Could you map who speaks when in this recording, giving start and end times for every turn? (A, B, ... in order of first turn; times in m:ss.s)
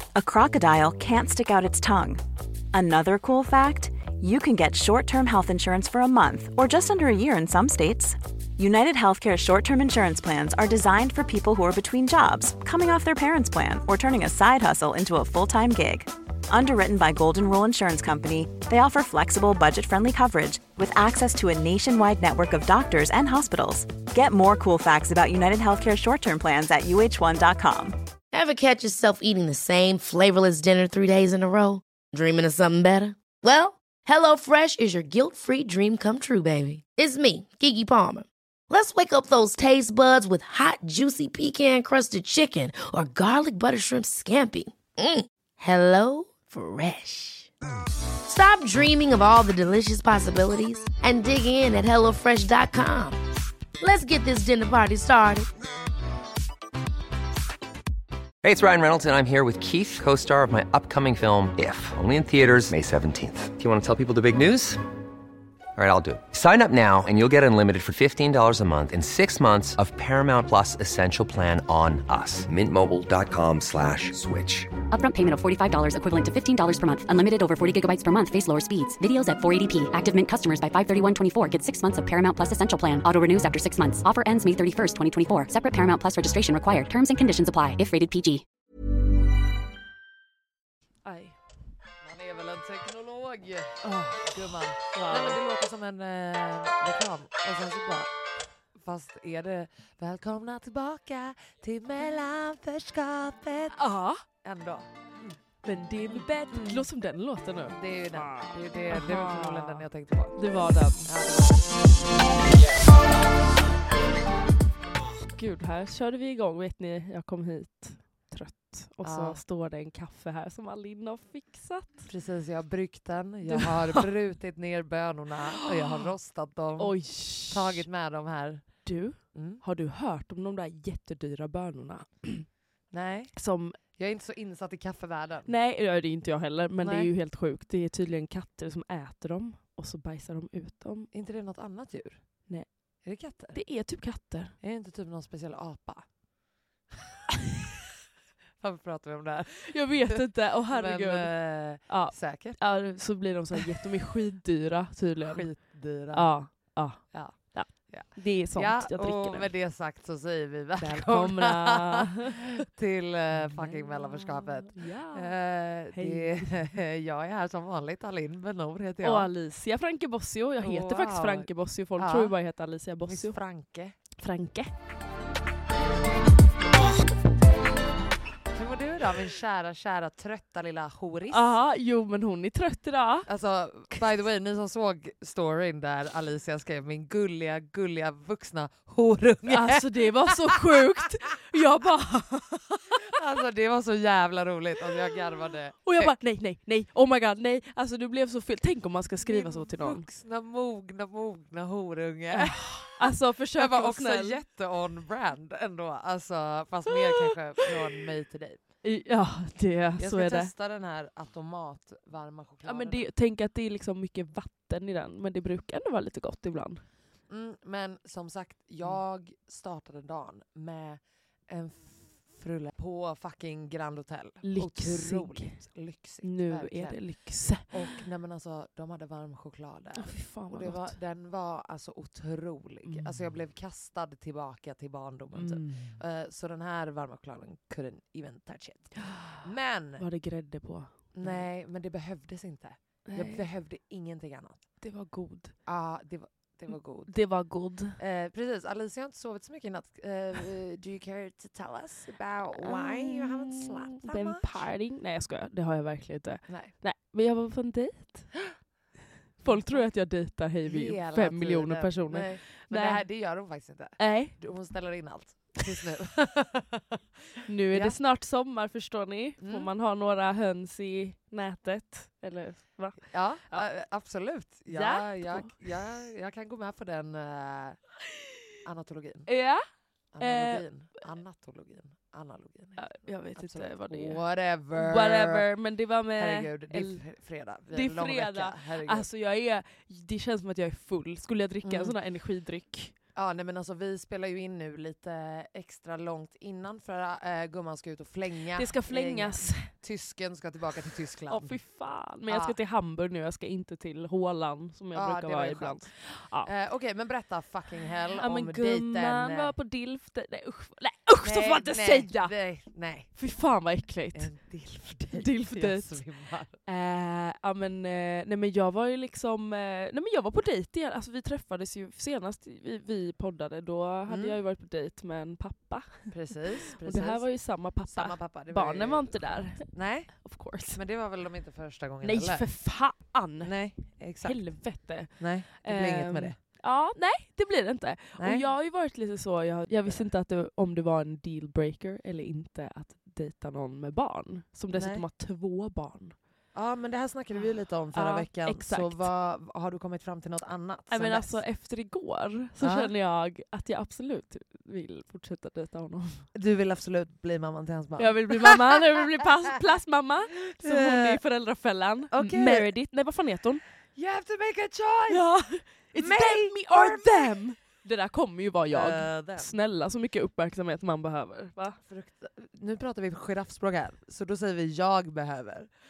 0:00.2-0:02.2 A
0:02.7-0:28.0 A
0:28.3-0:47.5 B
0:48.3-0:53.2 B
0:53.8-0:55.5 B
0:58.4-1:04.8 C
1:05.8-1:14.8 C
1:14.9-1:28.4 D
1:31.0-1:31.4 E
1:32.0-1:38.1 F
1:33.8-1:35.4 E
1:38.8-1:43.8 F
1:43.8-1:44.2 E
1:44.4-1:45.4 F
1:45.6-1:49.8 E
1:46.1-1:46.9 F
1:47.6-1:50.4 F
1:50.4-1:51.1 E
1:51.0-1:51.8 F
1:55.3-2:02.1 E
1:59.0-1:59.4 F
2:02.0-2:08.7 F
2:03.5-2:04.1 E
2:05.6-2:06.1 E
2:06.8-2:07.9 E
2:08.8-2:12.5 E
2:09.3-2:09.6 F
2:12.9-2:13.3 F
2:13.3-2:13.8 E
2:14.0-2:15.5 F
2:15.5-2:21.1 E
2:16.8-2:17.1 F
2:21.1-2:22.5 F
2:22.5-2:24.6 E
2:23.0-2:23.6 F
2:24.6-2:26.1 F
2:28.6-2:32.6 F
2:29.7-2:39.5 E
2:35.2-2:49.3 F
2:40.8-2:42.5 E
2:43.4-2:45.4 E
2:45.9-2:46.7 E
2:49.0-2:53.4 E
2:50.6-2:52.4 F
2:53.1-2:54.0 F
2:54.2-2:54.7 E
2:58.5-3:01.5 F
3:01.3-3:03.3 E
3:03.3-3:10.8 F
3:09.5-3:13.2 E
3:13.1-3:16.1 F
3:15.8-3:20.1 E
3:19.3-3:28.6 F
3:22.3-3:24.4 E
3:26.9-3:27.7 E
3:28.8-3:30.5 E
3:30.0-3:33.0 F
3:32.6-3:36.8 E
3:37.3-4:00.0 F
3:44.4-3:45.6 E
3:46.2-3:47.9 E
3:50.0-3:51.0 E
3:52.9-3:53.1 E
3:55.3-3:56.0 E
3:59.0-3:59.4 E
4:00.0-4:01.4 E
4:01.1-4:04.6 F
4:03.1-4:03.5 E
4:04.8-4:05.5 E
4:05.7-4:07.2 F
4:07.1-4:08.0 E
4:08.0-4:14.6 F
4:12.6-4:18.3 E
4:19.4-4:23.0 E
4:19.4-4:19.8 F
4:20.6-4:28.0 F
4:24.0-4:24.4 E
4:27.5-4:33.7 E
4:29.4-4:29.7 F
4:33.0-4:37.8 F
4:34.7-4:35.6 E
4:38.6-4:39.3 F
4:39.3-4:39.6 E
4:40.1-4:45.5 F
4:40.2-4:40.7 E
4:42.8-4:44.2 E
4:44.7-4:47.0 E
4:46.2-4:49.1 F
4:47.7-4:53.0 E
4:51.6-4:52.0 F
4:53.2-5:01.6 F
4:58.6-4:59.7 E
5:01.3-5:06.5 E
5:02.3-5:02.6 F
5:05.0-5:09.5 F
5:08.2-5:12.3 E
5:11.2-5:13.1 F
5:13.1-5:14.3 E
5:14.1-5:16.6 F
5:15.1-5:16.0 E
5:16.6-5:26.1 E
5:24.1-5:24.4 F
5:26.1-5:27.3 F
5:26.8-5:29.6 E
5:27.9-5:32.5 F
5:30.2-5:30.8 E
5:32.0-5:33.5 E
5:33.4-5:34.4 F
5:34.2-5:46.2 E
5:35.0-5:36.4 F
5:38.2-5:38.5 F
5:44.7-5:45.0 F
5:46.5-5:51.4 F
5:47.9-5:49.1 E
5:50.9-5:56.3 E
5:52.6-5:52.9 F
5:56.3-5:59.5 F
5:58.0-6:03.6 E
6:00.5-6:01.2 F
6:02.1-6:02.7 F
6:04.0-6:05.2 F
6:05.1-6:11.8 E
6:06.0-6:07.4 F
6:08.7-6:09.5 F
6:11.9-6:15.7 F